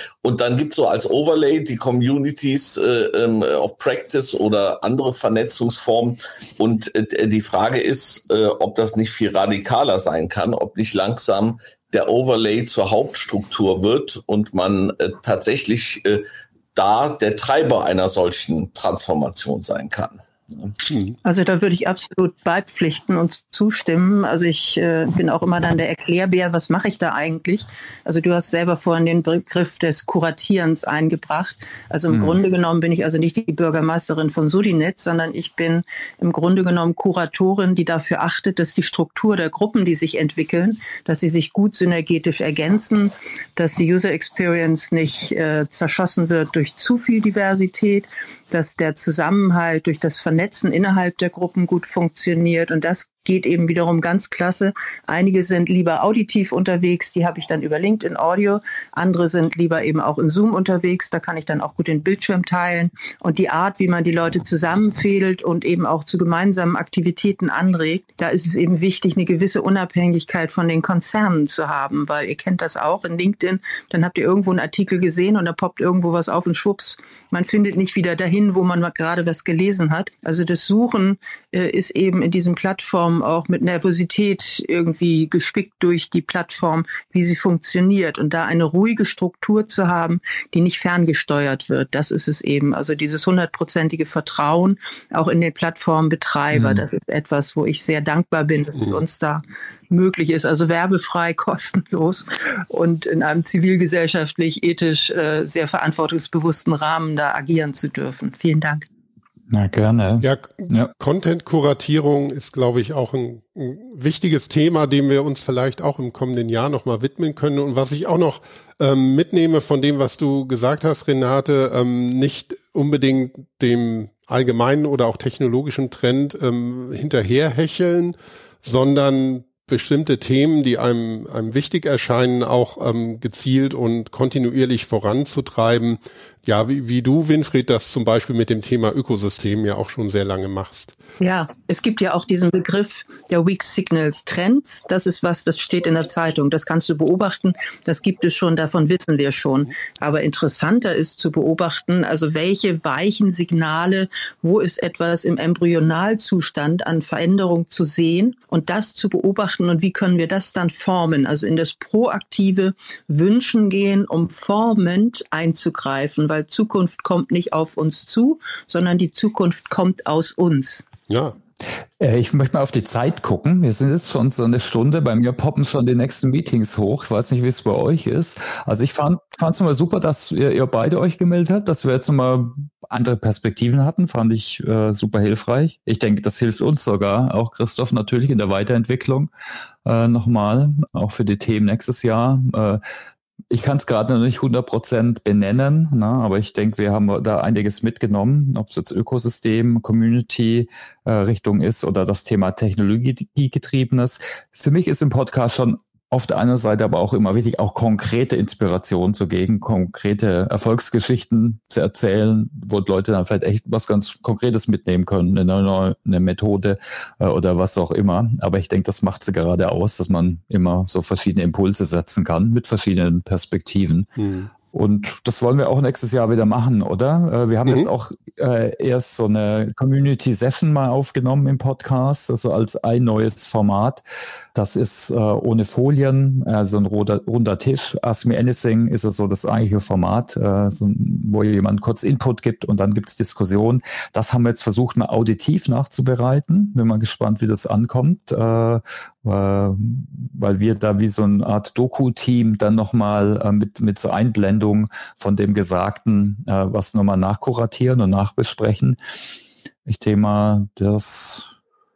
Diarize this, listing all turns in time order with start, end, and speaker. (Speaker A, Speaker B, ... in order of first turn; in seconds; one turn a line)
Speaker A: 0.2-20.7
Speaker B: 20.9-21.1
Speaker C: 21.2-108.8
Speaker D: 32.1-32.4
Speaker D: 96.5-96.8
Speaker B: 98.8-99.0
Speaker D: 109.5-110.9
Speaker B: 110.2-140.9
Speaker C: 141.2-170.8
Speaker B: 171.1-171.3
Speaker D: 172.0-189.3
Speaker D: 189.8-192.8
Speaker D: 193.5-224.1
Speaker B: 224.2-224.5
Speaker D: 224.7-234.0
Speaker B: 227.7-227.9
Speaker D: 234.5-259.3
Speaker D: 259.9-261.5